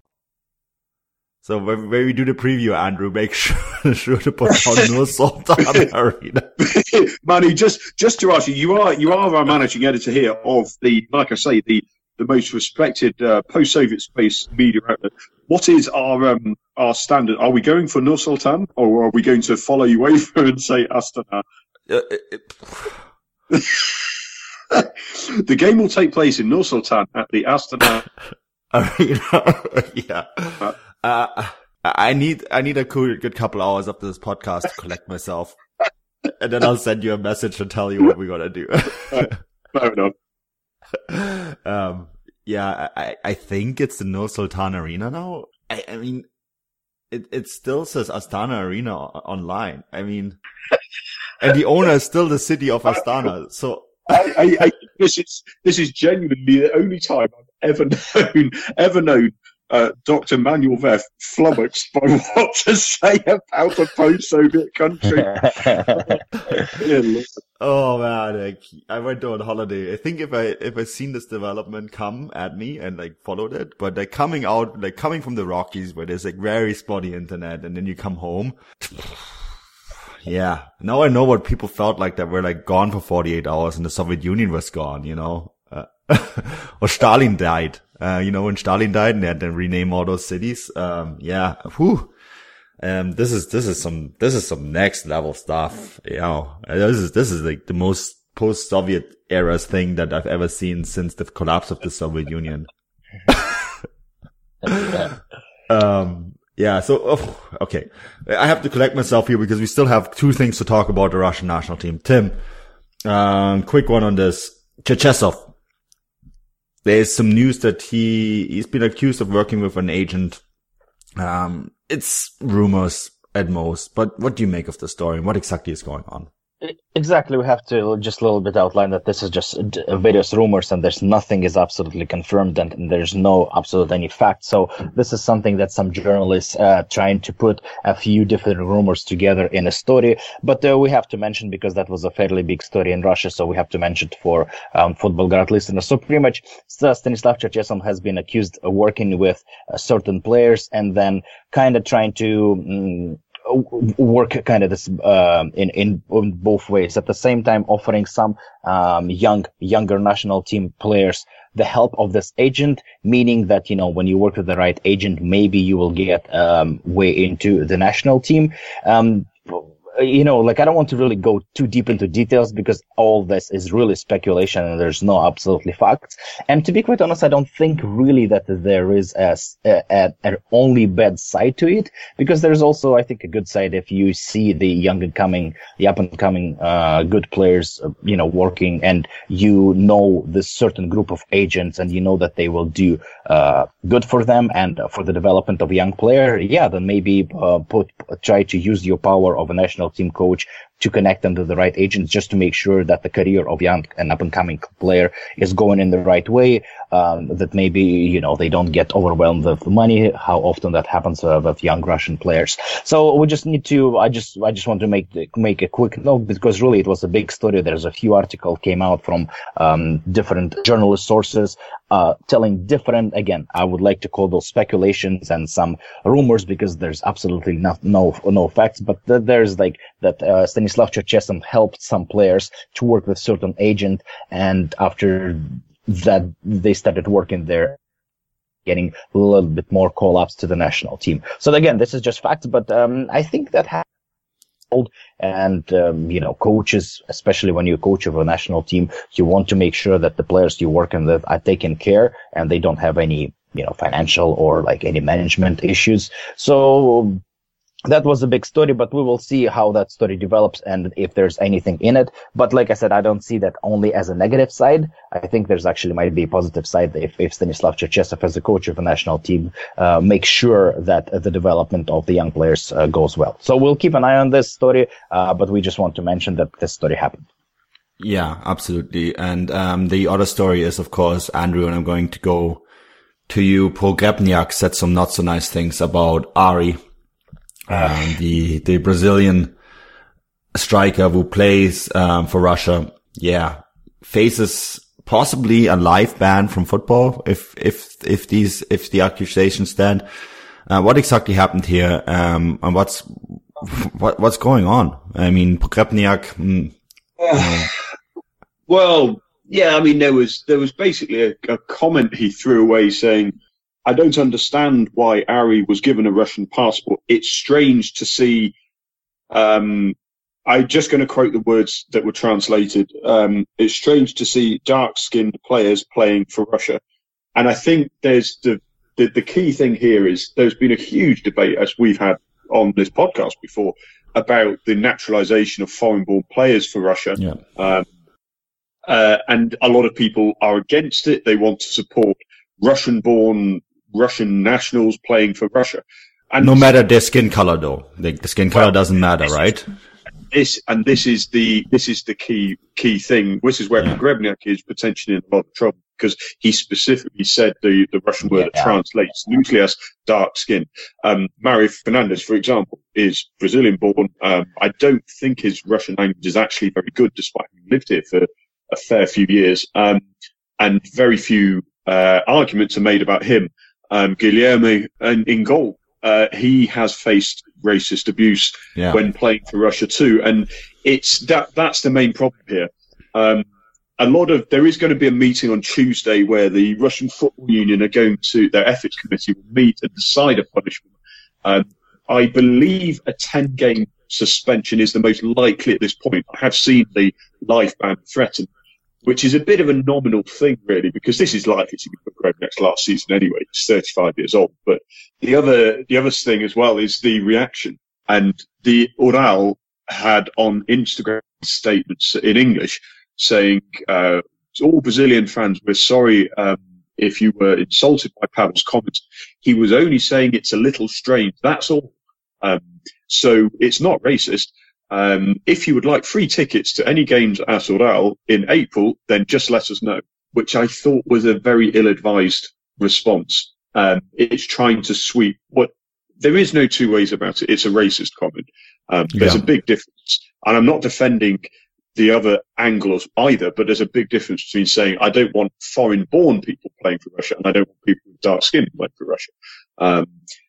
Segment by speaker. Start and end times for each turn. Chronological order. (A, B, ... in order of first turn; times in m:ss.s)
0:01.4-0:06.5 A
0:06.6-0:21.4 B
0:21.9-0:23.0 A
0:23.5-0:24.0 B
0:24.7-0:28.1 B
0:28.7-0:35.6 A
0:36.3-0:39.4 A
0:39.1-0:40.1 B
0:41.1-0:46.3 A
0:47.1-0:50.4 A
0:51.4-0:54.2 A
0:54.1-1:07.3 B
1:07.6-1:19.5 A
1:20.2-1:32.1 A
1:32.8-1:42.7 A
1:43.3-1:43.8 A
1:44.7-1:45.1 C
1:45.7-1:52.4 A
1:53.0-1:55.5 A
1:56.8-2:00.4 A
2:01.2-2:06.3 A
2:06.6-3:57.8 C
3:58.7-4:03.8 C
4:04.7-4:17.2 C
4:17.9-4:37.3 C
4:38.0-4:42.6 A
4:43.3-4:46.8 A
4:47.7-4:49.5 A
4:50.6-5:00.0 A
5:00.7-5:06.8 A
5:07.2-5:07.8 B
5:07.3-5:07.7 A
5:08.7-5:18.5 B
5:19.3-5:20.0 B
5:20.5-5:26.8 B
5:27.4-5:37.9 B
5:38.9-5:46.7 B
5:46.4-5:49.7 A
5:50.3-6:10.0 B
5:58.5-5:58.8 C
6:10.6-6:23.4 B
6:24.0-6:30.9 B
6:31.4-6:38.5 B
6:39.0-7:30.1 B
7:19.2-7:19.4 A